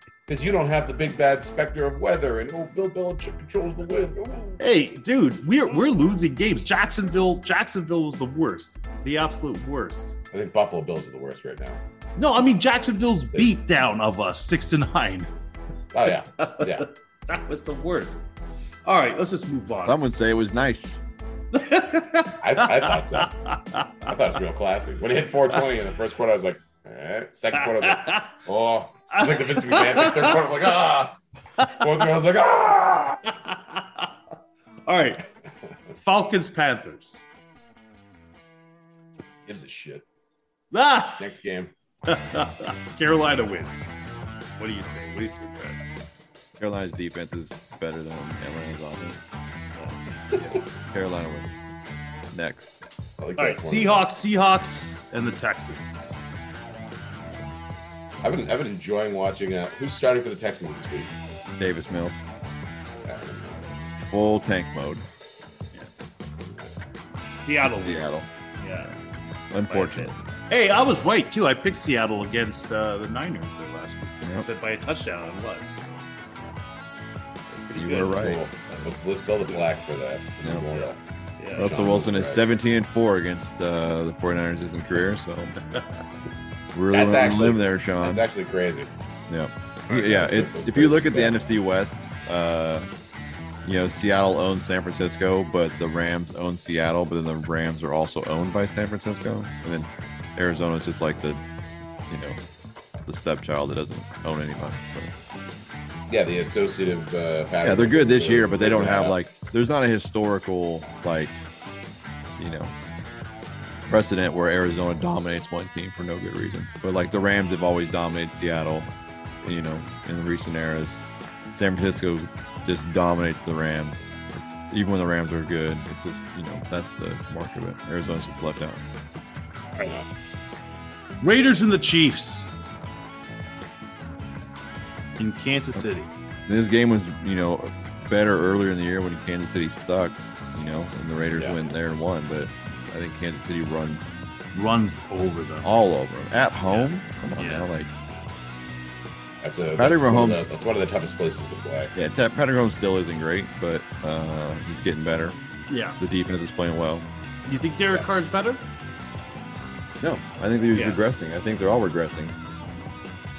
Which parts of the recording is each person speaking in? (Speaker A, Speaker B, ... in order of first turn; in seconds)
Speaker A: 0.3-4.6, 10.3-11.8, 15.9-16.9, 22.4-23.3, 24.1-33.2, 39.5-40.0, 41.2-41.7, 53.2-54.1, 58.2-61.1, 63.0-63.6, 78.0-81.0, 81.5-82.4, 86.9-88.9, 89.9-91.4, 106.1-109.2, 129.8-130.1, 149.4-151.9
Speaker B: 4.6-10.1, 12.2-15.3, 16.4-18.2, 18.8-20.0, 21.5-24.1, 27.6-28.4, 29.1-30.4, 31.6-31.9, 33.3-34.1, 34.9-35.2, 36.0-37.2, 40.7-41.2, 42.0-44.0, 44.6-45.8, 53.4-56.1, 67.5-68.9, 69.7-75.9, 77.5-78.9, 81.4-81.7, 131.2-132.5, 135.2-136.1, 144.5-145.7, 146.7-147.7, 155.7-156.0, 157.5-158.6, 160.7-161.0
Speaker C: 19.8-21.0, 46.6-49.3, 50.4-51.5, 52.3-52.8, 61.6-62.2, 64.1-65.0, 67.6-68.3, 69.5-70.1, 74.2-74.5, 77.7-78.4, 81.6-85.5, 86.7-88.2, 89.3-92.9, 93.6-101.4, 102.1-102.4, 103.0-105.1, 107.6-111.4, 112.4-112.7, 113.9-118.9, 119.4-128.8, 136.5-144.2, 145.6-147.9, 149.8-150.5, 151.9-155.3, 156.0-157.1, 160.0-162.3